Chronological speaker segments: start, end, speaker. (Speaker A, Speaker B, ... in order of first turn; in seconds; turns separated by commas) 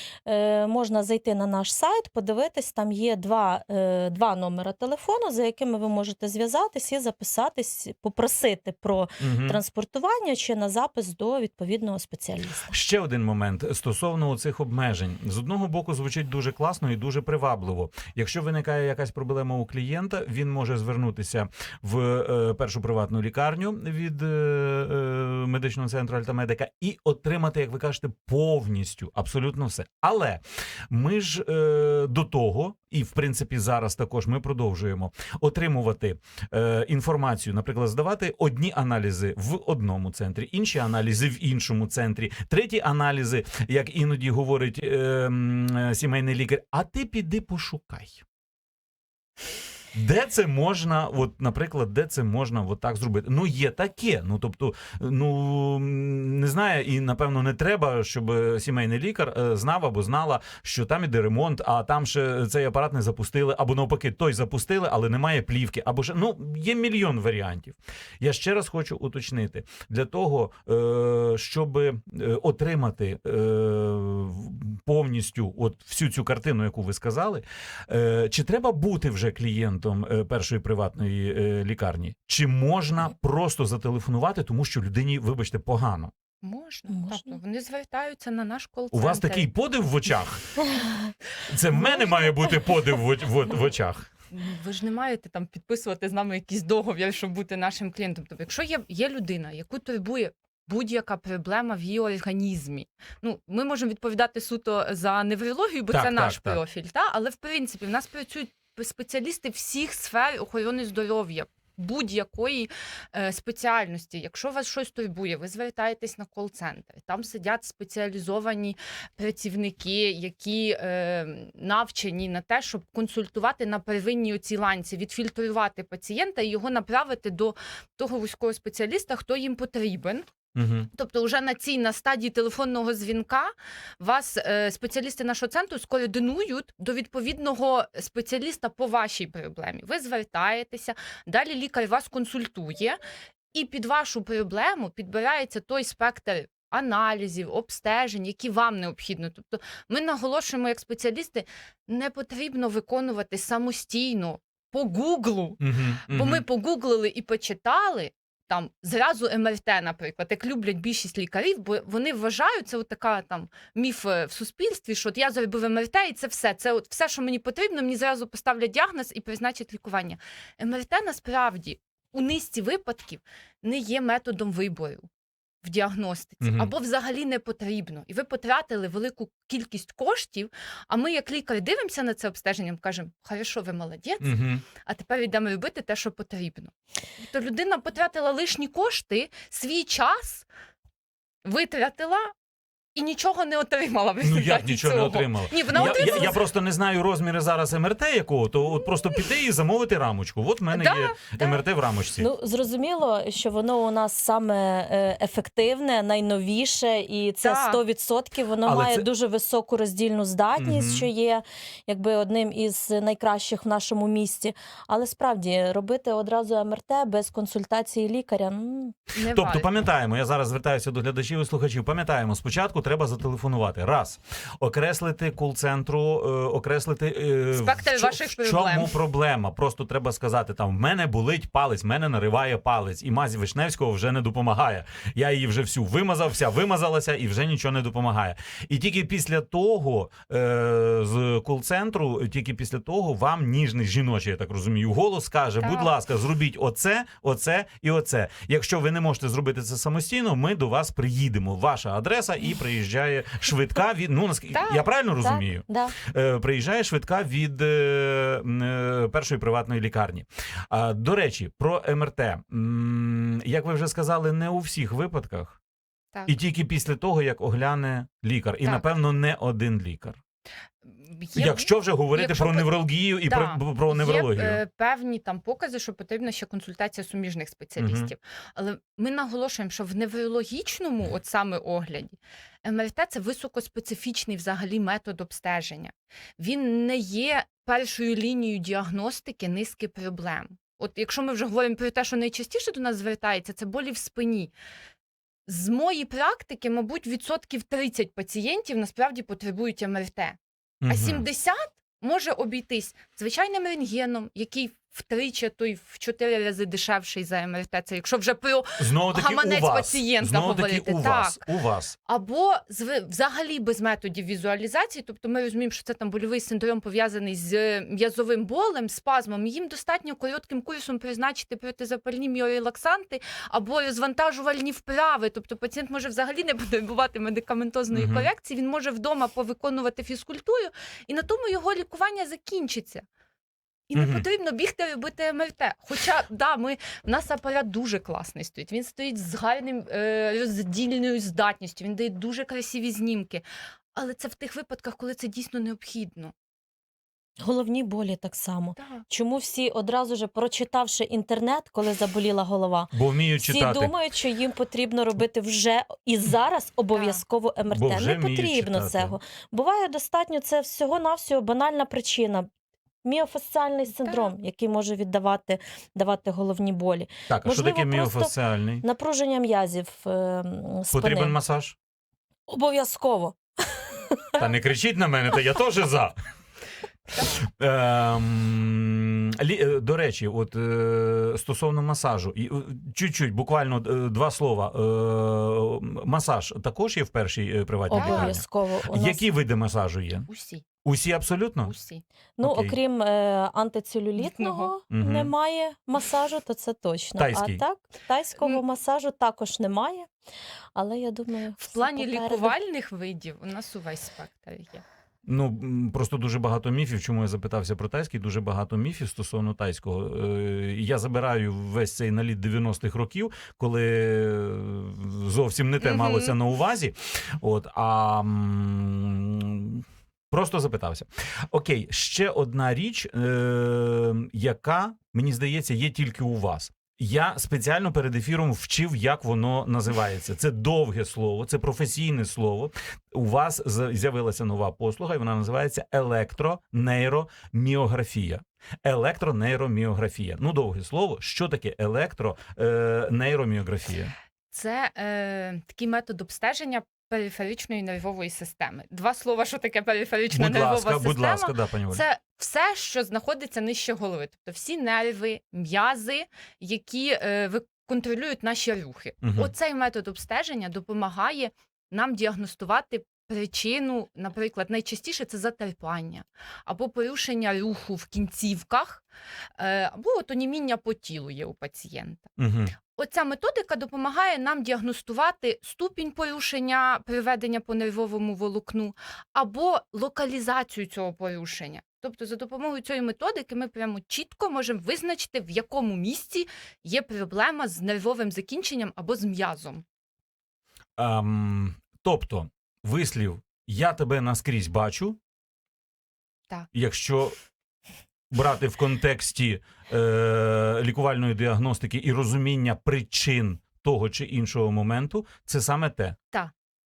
Speaker A: 0.3-12.7, Speaker B: 9.2-9.6, Speaker B: 12.7-48.2, Speaker B: 49.9-86.1, Speaker C: 86.4-89.5, Speaker A: 86.9-87.3, Speaker B: 88.9-90.6, Speaker B: 91.5-94.1, Speaker C: 91.8-92.6, Speaker C: 94.3-130.3, Speaker B: 105.9-106.6, Speaker B: 130.6-130.9, Speaker C: 130.9-143.0, Speaker C: 143.5-175.1, Speaker B: 155.6-156.4, Speaker C: 175.6-190.5, Speaker B: 176.4-176.7, Speaker B: 184.2-184.7, Speaker C: 191.4-192.3, Speaker C: 192.9-196.4, Speaker B: 194.2-202.3, Speaker C: 200.7-201.7, Speaker A: 202.2-219.0, Speaker C: 207.4-207.8, Speaker B: 208.6-209.1, Speaker B: 210.6-211.1, Speaker C: 219.2-219.7, Speaker B: 219.3-265.6, Speaker C: 227.5-228.9, Speaker C: 245.6-245.9, Speaker C: 254.5-254.8, Speaker A: 255.2-255.9, Speaker B: 266.3-270.2, Speaker C: 270.9-272.7, Speaker B: 271.4-274.6, Speaker C: 273.2-294.5, Speaker B: 277.8-278.1, Speaker C: 295.5-311.5, Speaker B: 300.8-301.3, Speaker B: 308.8-311.9, Speaker C: 312.1-333.0, Speaker B: 327.9-328.3, Speaker C: 333.9-343.4, Speaker B: 333.9-334.2, Speaker C: 343.9-346.3, Speaker A: 347.4-362.5, Speaker C: 348.8-349.1, Speaker B: 352.9-353.9, Speaker C: 356.9-357.2, Speaker B: 357.7-359.2, Speaker A: 363.0-371.4, Speaker C: 364.0-364.3, Speaker B: 367.3-368.8, Speaker B: 370.9-371.8, Speaker A: 372.5-374.4, Speaker B: 374.4-376.2, Speaker B: 377.4-390.3, Speaker A: 387.9-389.3, Speaker C: 387.9-388.4, Speaker C: 390.3-390.6, Speaker B: 390.8-391.7, Speaker C: 391.7-392.0, Speaker A: 392.4-400.1, Speaker B: 392.4-392.8, Speaker C: 394.2-394.7, Speaker B: 394.9-395.3, Speaker B: 397.2-397.6, Speaker A: 400.8-402.5, Speaker C: 401.6-404.8, Speaker B: 405.3-444.1, Speaker C: 415.8-416.4, Speaker C: 444.5-469.0, Speaker B: 450.3-452.0, Speaker B: 459.2-459.5, Speaker C: 469.6-472.3, Speaker B: 472.4-472.8, Speaker C: 472.9-489.8, Speaker B: 491.0-495.2, Speaker B: 496.7-497.4, Speaker B: 498.3-506.2